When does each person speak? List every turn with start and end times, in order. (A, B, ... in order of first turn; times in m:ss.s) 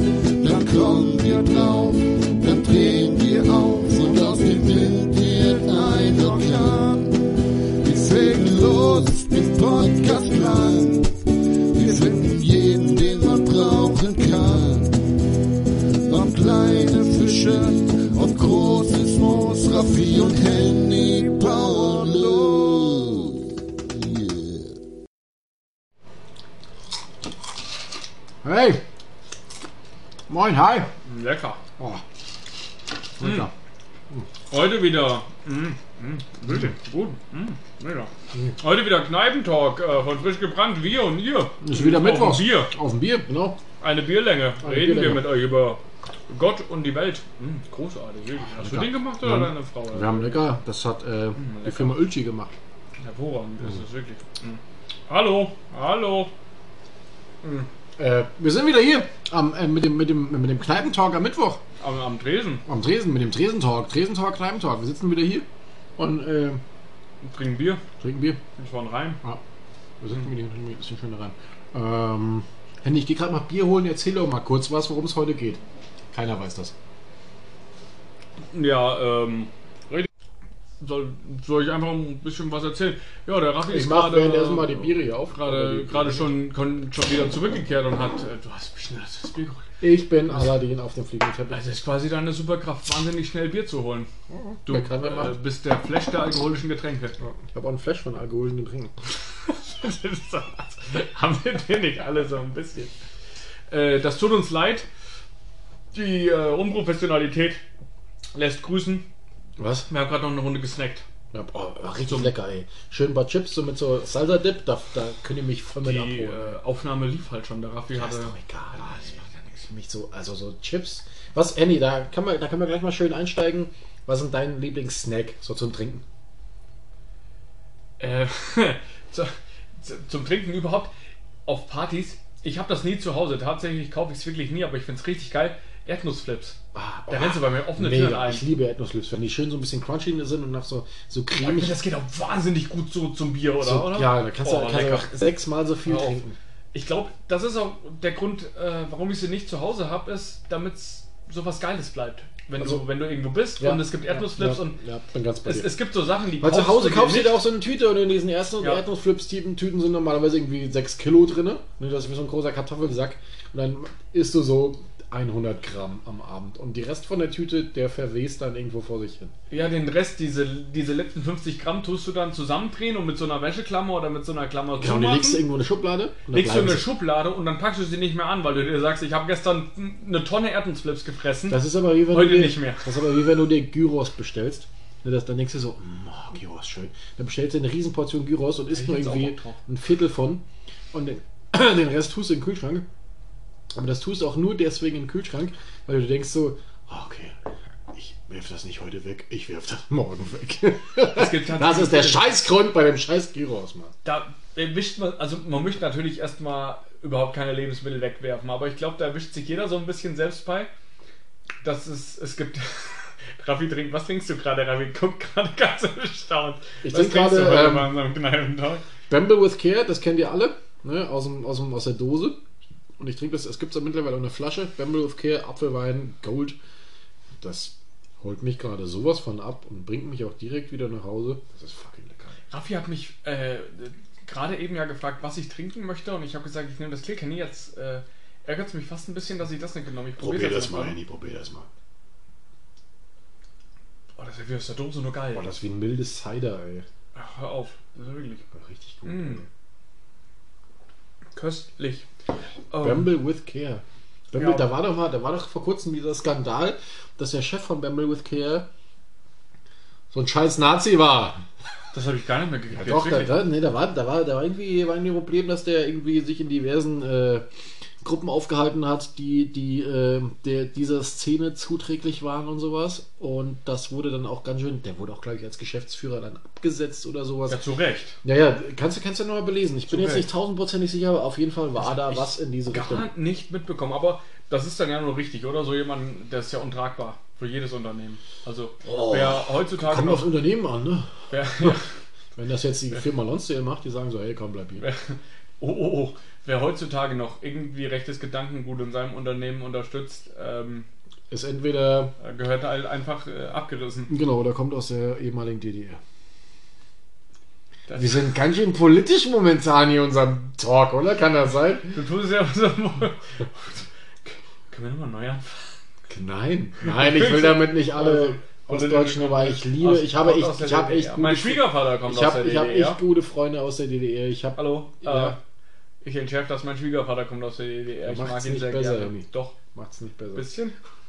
0:00.3-0:24.7 A
0:28.4-0:28.8 B
0:30.3-0:30.9 B
0:31.0-0:31.6 C
0:33.2-0:33.5 B
0:33.2-0:33.5 C
0:34.5-0:42.7 C
0:36.5-0:36.8 B
0:38.3-0:38.6 B
0:41.6-0:43.6 B
0:43.8-0:50.5 C
0:44.6-0:45.3 B
0:48.4-0:52.6 B
0:51.4-0:52.1 C
0:53.0-0:56.3 C
0:57.4-0:57.7 C
0:58.0-1:01.6 B
1:01.8-1:02.6 C
1:02.7-1:05.4 B
1:06.0-1:06.6 B
1:07.2-1:07.8 C
1:08.0-1:08.4 B
1:08.6-1:09.2 C
1:10.0-1:15.6 B
1:16.1-1:16.7 B
1:18.5-1:19.5 C
1:20.8-1:29.7 C
1:23.7-1:26.3 B
1:29.8-1:31.6 B
1:31.5-1:34.1 C
1:34.3-1:35.4 B
1:34.7-1:37.2 C
1:37.2-1:39.1 B
1:39.3-1:42.9 C
1:43.7-1:44.9 C
1:45.9-1:47.6 C
1:48.3-1:49.1 C
1:49.6-1:49.9 B
1:49.9-1:51.0 C
1:51.3-1:56.6 B
1:52.1-1:52.3 C
1:55.8-1:59.6 C
1:57.9-2:06.0 B
2:08.0-2:10.9 C
2:11.5-2:16.6 C
2:16.7-2:21.8 B
2:17.1-2:18.5 C
2:21.4-2:25.1 C
2:23.6-2:26.4 B
2:25.9-2:34.8 C
2:32.6-2:32.9 B
2:33.6-2:35.8 B
2:35.4-2:37.4 C
2:36.4-2:49.3 B
2:49.5-2:55.4 C
2:54.8-2:56.9 B
2:56.3-3:02.9 C
3:01.5-3:12.9 B
3:08.7-3:09.6 C
3:13.7-3:17.4 B
3:17.9-3:23.9 B
3:21.1-3:22.3 C
3:24.0-3:30.7 C
3:31.6-3:38.8 C
3:36.8-3:38.0 B
3:39.1-3:42.4 B
3:43.0-3:46.6 B
3:47.4-3:52.4 B
3:52.5-4:01.0 C
4:00.2-4:01.7 B
4:04.2-4:05.5 C
4:05.3-4:06.9 B
4:07.1-4:08.5 C
4:08.5-4:09.5 B
4:09.0-4:09.4 C
4:11.4-4:12.1 C
4:12.7-4:13.1 C
4:12.8-4:18.7 B
4:14.4-4:14.7 C
4:20.1-4:21.4 B
4:21.9-4:23.4 C
4:22.7-4:27.4 B
4:28.0-4:37.6 B
4:37.5-4:38.2 C
4:38.2-4:43.1 B
4:39.9-4:40.3 C
4:41.8-4:50.3 C
4:48.8-4:51.8 B
4:51.3-4:51.9 C
4:52.4-4:54.9 B
4:54.8-5:00.9 C
5:01.3-5:02.1 B
5:02.2-5:04.1 C
5:04.1-5:06.0 B
5:07.9-5:08.4 C
5:08.0-5:12.0 B
5:11.9-5:15.7 C
5:16.1-5:25.4 B
5:16.8-5:23.0 C
5:24.6-5:25.4 C
5:26.0-5:29.6 C
5:28.0-5:30.5 B
5:30.4-5:30.8 C